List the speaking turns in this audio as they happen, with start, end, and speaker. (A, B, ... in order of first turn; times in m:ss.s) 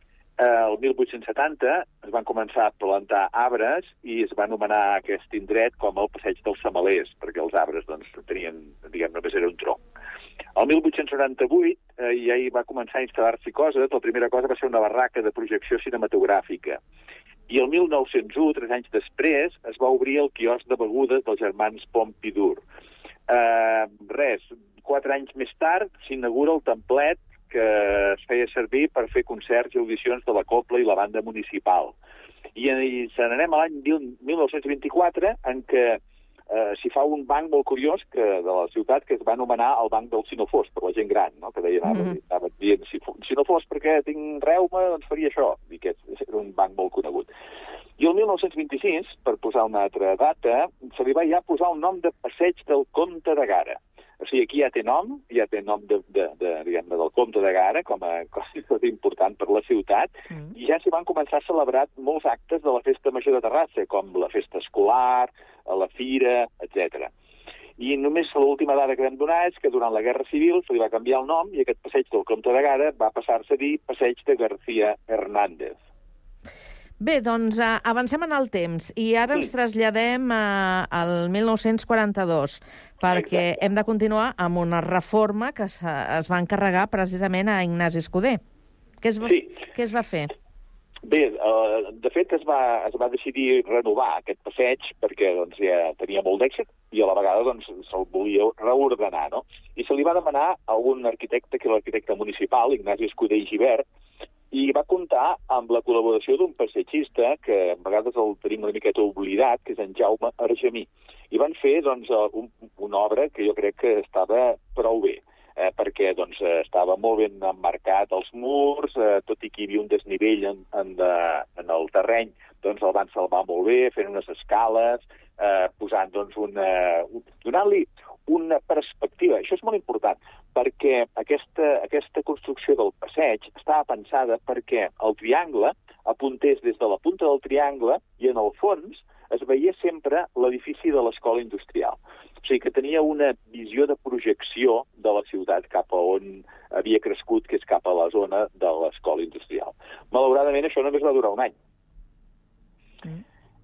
0:00.4-0:09.8 A
0:10.6-0:16.8 A
0:17.5-0:22.6 A
0:23.3-0:32.0 A
0:32.6-0:47.3 A
0:41.9-0:42.2 B
0:48.0-1:07.1 A
1:07.8-1:15.8 A
1:17.0-1:28.4 B
1:23.1-1:23.7 A
1:29.0-1:30.3 B
1:29.2-1:29.6 A
1:31.1-1:43.8 A
1:44.5-2:31.5 A